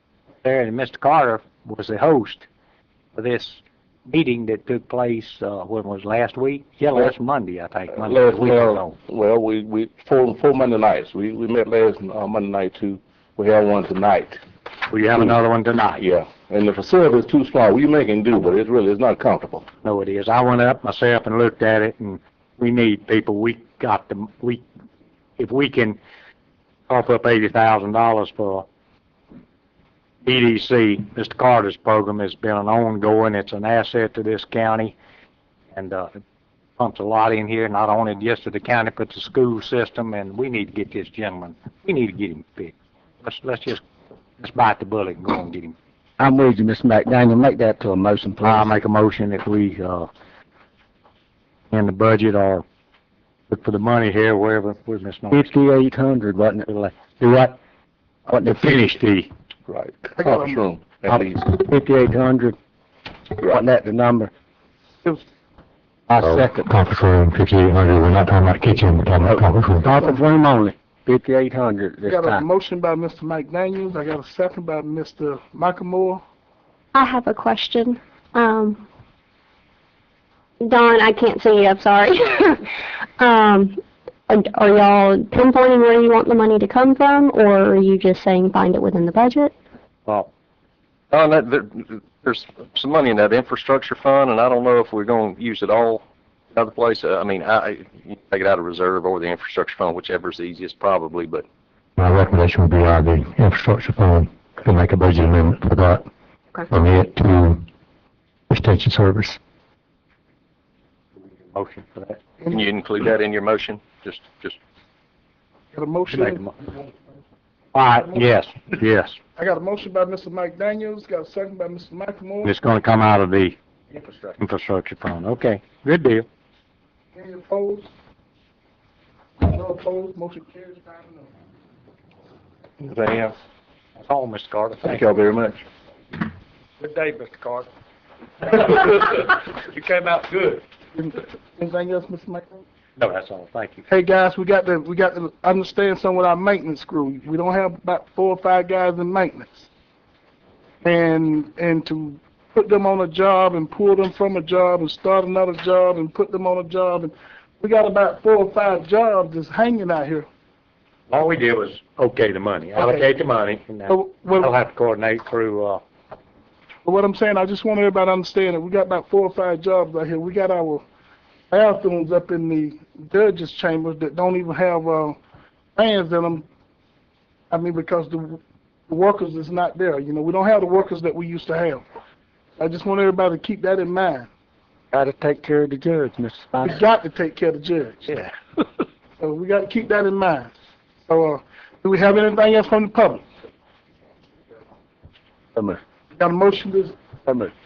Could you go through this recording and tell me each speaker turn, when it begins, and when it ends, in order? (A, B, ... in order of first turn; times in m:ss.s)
0:00.4-0:02.5 A
0:03.1-0:08.9 A
0:07.9-0:14.4 B
0:14.9-0:16.0 A
0:16.0-0:19.6 B
0:19.8-0:24.6 A
0:25.4-0:26.0 A
0:26.9-0:28.6 A
0:30.2-0:34.9 A
0:35.7-0:36.1 A
0:36.8-0:43.8 A
0:44.4-0:45.8 A
0:46.2-0:48.7 C
0:48.4-0:50.1 A
0:51.7-0:52.6 A
0:53.5-0:55.5 A
0:55.3-0:56.7 C
0:56.7-0:57.6 A
0:58.3-0:59.3 A
0:59.7-1:01.4 B
1:00.2-1:00.6 D
1:01.6-1:02.6 C
1:03.4-1:04.3 C
1:06.1-1:06.5 A
1:06.2-1:10.0 E
1:09.2-1:12.4 C
1:09.9-1:10.2 D
1:12.0-1:16.2 D
1:16.9-1:18.8 F
1:20.6-1:22.7 F
1:23.2-1:29.5 F
1:31.1-1:41.4 G
1:42.0-1:46.0 E
1:46.7-1:47.6 E
1:48.5-1:49.4 E
1:51.2-1:52.2 A
1:52.4-1:52.7 D
1:52.5-1:54.6 G
1:55.7-1:56.4 D
1:56.1-1:56.5 A
1:57.7-1:59.2 A
1:59.4-2:02.5 D
2:02.4-2:03.6 A
2:04.4-2:06.2 A
2:07.1-2:07.9 D
2:09.4-2:11.3 D
2:12.8-2:13.3 B
2:14.0-2:15.0 A
2:14.8-2:15.6 B
2:20.9-2:22.6 D
2:23.0-2:23.9 A
2:23.9-2:29.7 D
2:30.8-2:40.3 D
2:41.1-2:45.8 A
2:42.8-2:43.0 D
2:43.9-2:44.5 D
2:46.8-2:50.8 D
2:51.5-2:55.2 D
2:55.8-2:56.4 D
2:57.5-3:01.8 D
3:02.6-3:04.3 D
3:04.9-3:06.8 C
3:06.6-3:08.1 D
3:09.2-3:10.5 D
3:11.0-3:13.2 D
3:15.5-3:15.8 C
3:16.2-3:17.0 D
3:17.2-3:17.5 C